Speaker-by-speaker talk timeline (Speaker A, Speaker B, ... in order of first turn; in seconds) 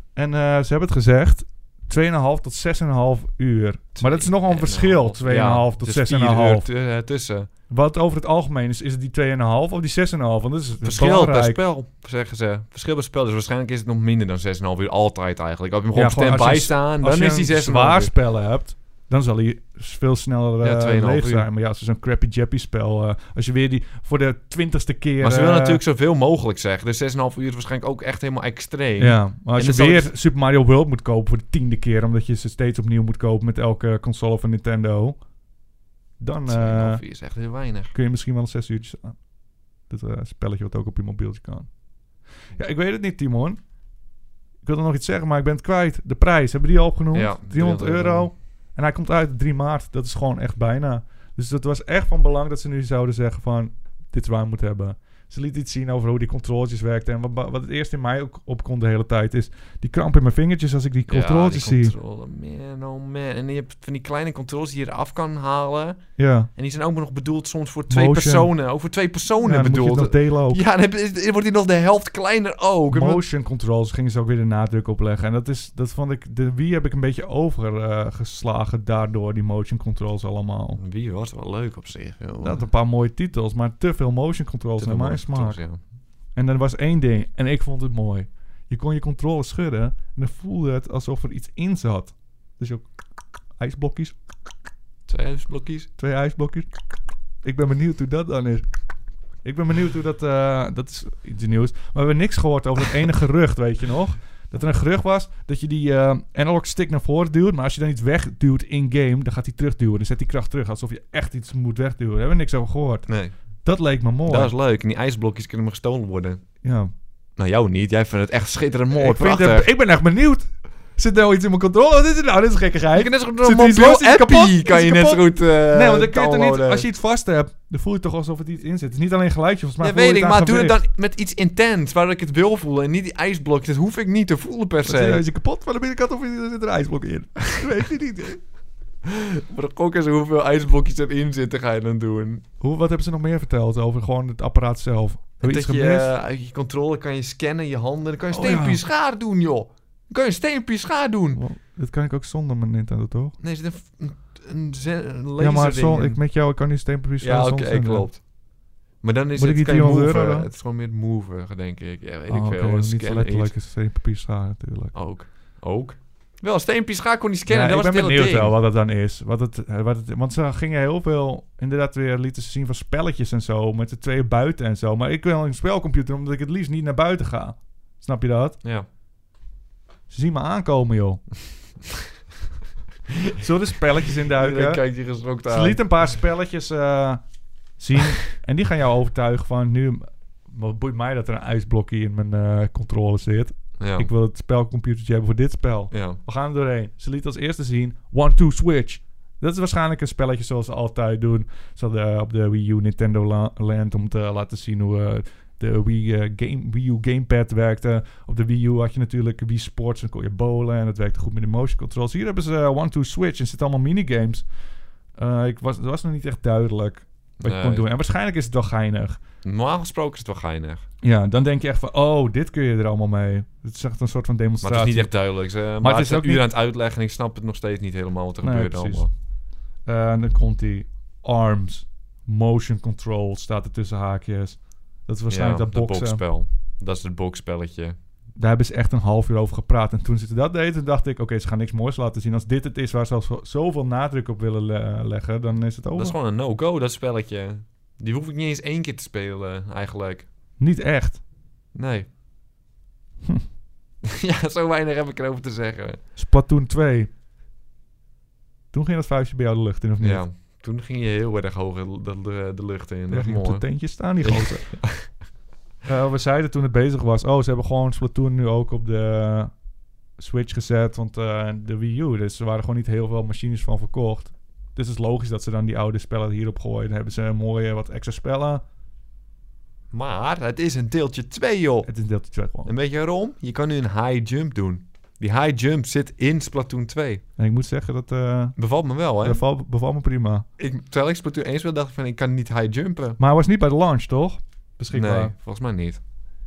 Speaker A: 0.1-6.7, 7.7-11.6, 15.9-25.8, 29.0-35.2, 36.2-37.0, 37.9-39.2, 39.9-41.7, 42.5-43.6, 44.6-61.9, 66.2-66.5, 67.9-68.5, 69.4-70.6, 72.9-80.8, 82.4-85.6, 86.3-92.9, 93.6-94.1, 96.0-96.7, 97.4-98.7, 99.4-113.1, 113.6-114.5, 116.6-116.9, 118.9-130.8, 134.8-138.4, 142.6-146.1, 148.3-148.8, 151.3-153.3, 155.4-158.1, 159.4-160.5, 162.3-164.9, 167.5-178.6, 180.1-181.2, 183.4-184.8, 185.5-187.2, 187.8-214.5, 215.2-219.2, 221.0-225.1, 225.8-226.4, 228.4-229.1, 229.8-236.2, 238.3-246.2, 250.6-251.2, 256.1-257.1, 258.7-260.2, 263.1-264.8, 265.8-269.5, 270.2-278.6, 281.8-282.7, 287.4-288.6, 289.2-290.4, 293.2-295.3
Speaker B: 4.0-7.5, 10.8-18.1, 20.6-21.5, 25.2-30.1, 36.5-37.9, 47.1-48.3, 61.1-66.0, 66.5-73.2, 80.8-82.6, 84.8-85.8, 95.1-95.9, 113.1-113.3, 114.3-116.4, 117.4-119.7, 122.9-126.9, 129.8-135.2, 139.0-142.4, 145.4-151.4, 153.4-156.2, 157.2-158.2, 159.0-163.5, 164.9-168.6, 184.2-185.8, 193.8-194.1, 195.9-196.2, 217.4-217.9, 219.4-220.8, 224.6-229.1, 235.3-237.9, 245.9-250.3, 251.7-252.1, 254.0-256.0, 260.0-263.7, 264.2-265.1, 279.9-281.9, 282.6-287.2, 288.6-289.4, 290.6-293.2, 294.9-296.0